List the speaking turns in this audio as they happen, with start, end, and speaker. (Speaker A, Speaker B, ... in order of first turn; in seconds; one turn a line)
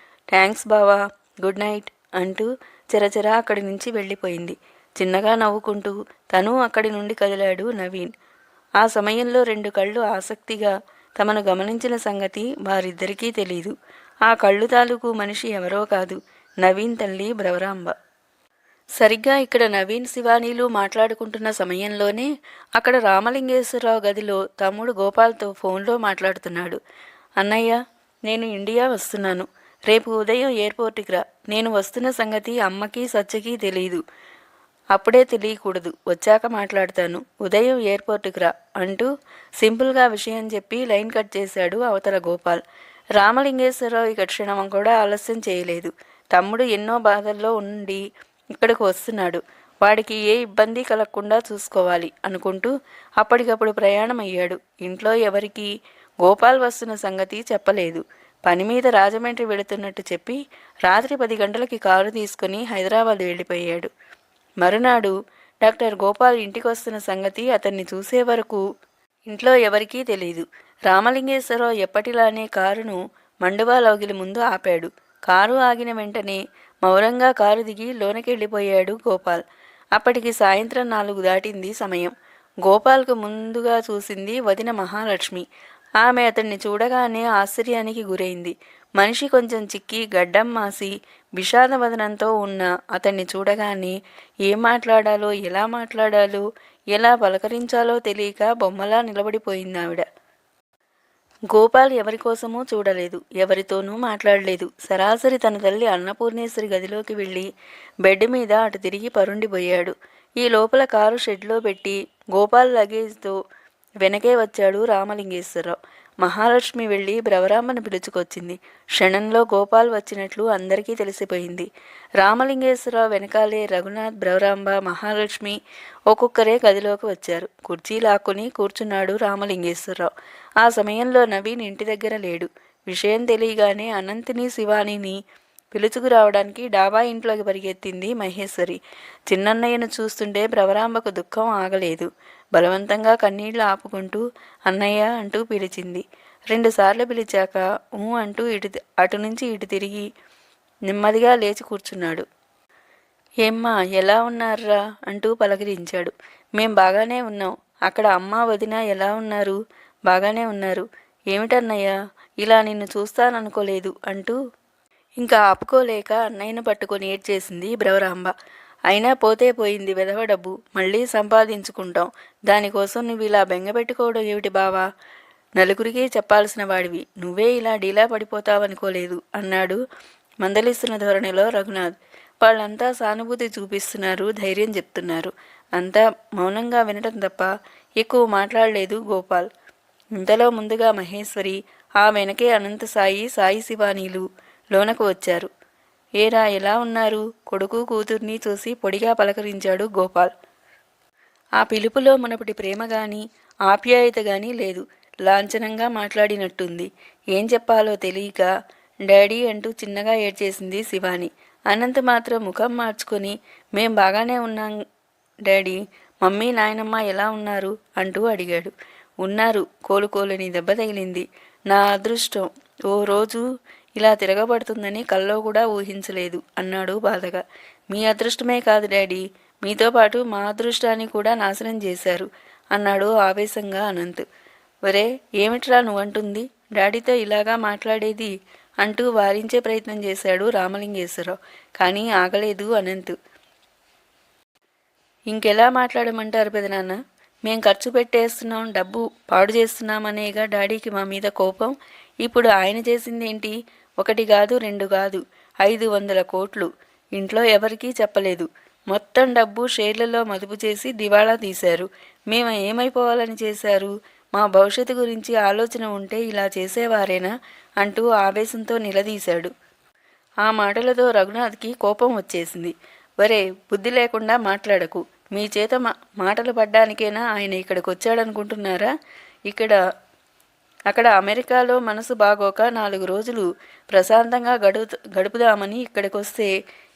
Speaker A: 0.3-8.1
Speaker A: 8.8-13.7
Speaker A: 14.3-17.9
Speaker A: 19.0-26.8
Speaker A: 27.4-34.0
Speaker A: 34.9-39.1
Speaker A: 39.6-42.6
Speaker A: 43.2-48.0
Speaker A: 48.6-55.7
Speaker A: 56.2-63.9
Speaker A: 64.6-68.6
Speaker A: 69.3-79.4
Speaker A: 80.0-82.1
Speaker A: 82.7-85.5
Speaker A: 86.0-100.0
Speaker A: 101.5-107.5
Speaker A: 108.0-113.4
Speaker A: 114.0-125.6
Speaker A: 126.1-135.2
Speaker A: 135.7-150.1
Speaker A: 150.9-152.2
Speaker A: 153.4-159.6
Speaker A: 160.1-164.3
Speaker A: 165.2-168.3
Speaker A: 168.9-174.9
Speaker A: 175.6-179.8
Speaker A: 180.4-189.5
Speaker A: 190.2-195.5
Speaker A: 196.2-200.3
Speaker A: 201.6-208.5
Speaker A: 209.1-214.7
Speaker A: 215.5-223.4
Speaker A: 224.0-234.2
Speaker A: 234.9-243.2
Speaker A: 245.3-269.5
Speaker A: 270.4-278.9
Speaker A: 279.5-279.8
Speaker A: 280.9-286.5